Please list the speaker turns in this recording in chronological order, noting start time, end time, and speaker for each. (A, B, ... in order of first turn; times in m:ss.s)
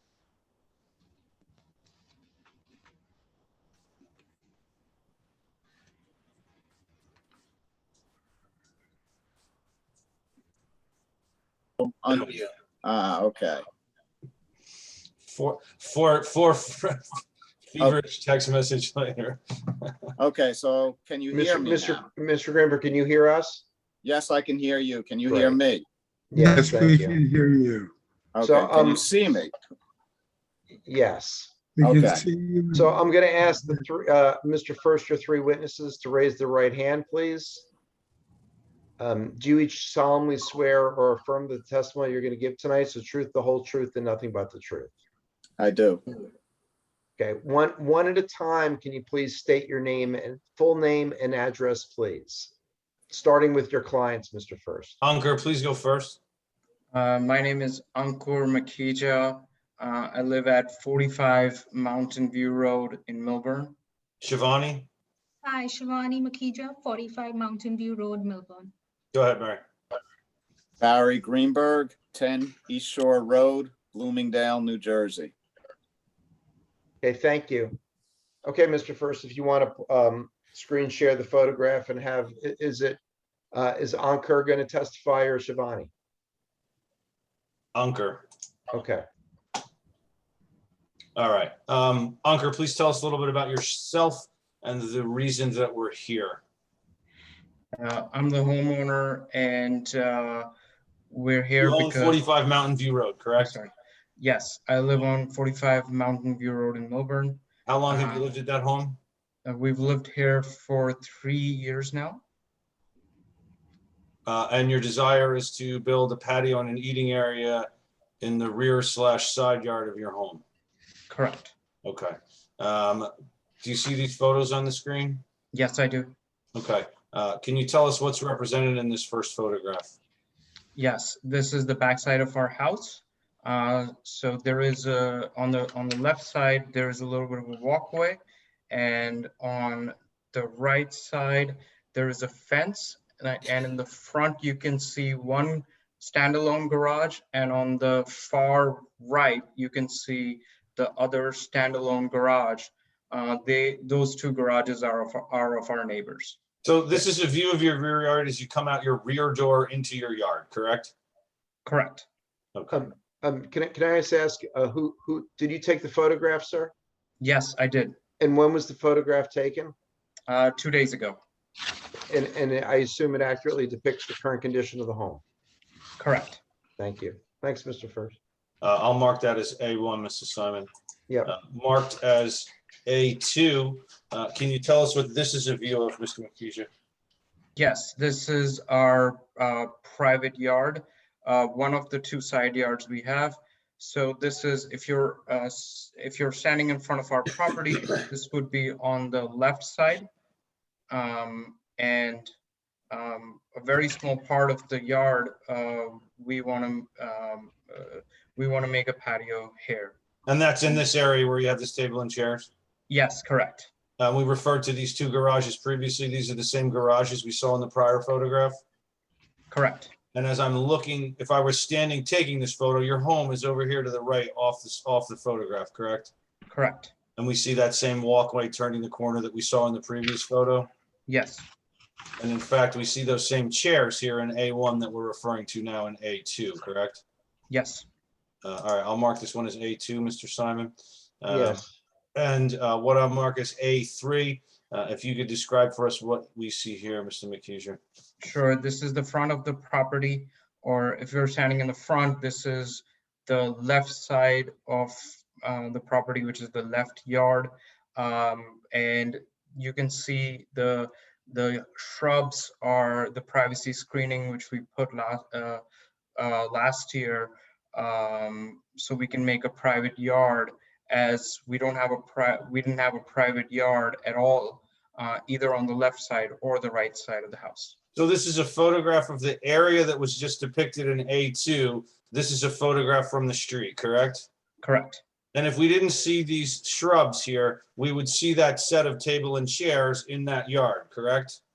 0:11.8-0:13.6 A
0:15.2-0:17.0 B
0:17.7-0:20.0 B
0:20.2-0:22.1 A
0:21.3-0:23.6 C
0:24.0-0:25.8 A
0:25.3-0:25.6 C
0:26.3-0:27.2 C
0:26.4-0:27.9 D
0:28.3-0:29.5 A
0:28.4-0:29.0 C
0:30.8-0:31.5 C
0:31.8-0:32.9 D
0:31.8-0:32.2 A
0:32.7-0:37.7 C
0:39.0-0:44.9 C
0:45.6-0:46.0 A
0:47.2-0:52.5 C
0:53.1-0:55.0 C
0:55.0-0:56.2 B
0:56.9-1:03.7 E
1:04.2-1:04.9 B
1:05.4-1:08.7 F
1:09.1-1:09.6 B
1:10.8-1:15.3 A
1:17.0-1:17.8 C
1:18.4-1:23.0 C
1:23.5-1:25.9 C
1:27.7-1:28.2 B
1:28.7-1:29.0 C
1:31.2-1:36.4 B
1:37.7-1:40.5 E
1:41.1-1:42.2 E
1:41.6-1:43.6 B
1:43.4-1:48.3 E
1:47.6-1:49.0 B
1:49.4-1:52.2 E
1:54.2-1:57.7 B
1:58.2-2:00.4 B
2:01.1-2:01.5 E
2:01.8-2:03.1 B
2:03.6-2:05.2 B
2:05.5-2:06.1 E
2:06.5-2:09.9 B
2:10.7-2:36.4 E
2:36.6-2:40.9 B
2:41.6-2:42.0 E
2:42.5-2:42.8 B
2:42.7-2:46.7 C
2:47.2-2:48.0 E
2:48.2-2:49.7 C
2:50.3-2:51.2 E
2:52.1-2:55.2 C
2:56.0-2:56.4 E
2:56.8-2:58.2 C
2:58.6-3:00.7 B
3:01.2-3:06.7 B
3:07.6-3:20.1 E
3:20.9-3:22.3 E
3:22.9-3:30.0 E
3:30.2-3:32.5 B
3:32.9-3:33.7 E
3:34.0-3:38.6 B
3:39.5-3:39.9 E
3:40.1-3:46.1 B
3:46.5-3:46.9 E
3:47.2-3:50.7 B
3:51.1-3:51.4 E
3:52.2-3:57.0 B
3:57.5-3:57.8 E
3:58.4-4:01.6 B
4:01.3-4:01.7 C
4:02.1-4:07.8 B
4:08.2-4:25.6 E
4:26.2-4:37.8 E
4:37.9-4:44.3 B
4:44.6-4:45.0 E
4:45.3-4:51.4 B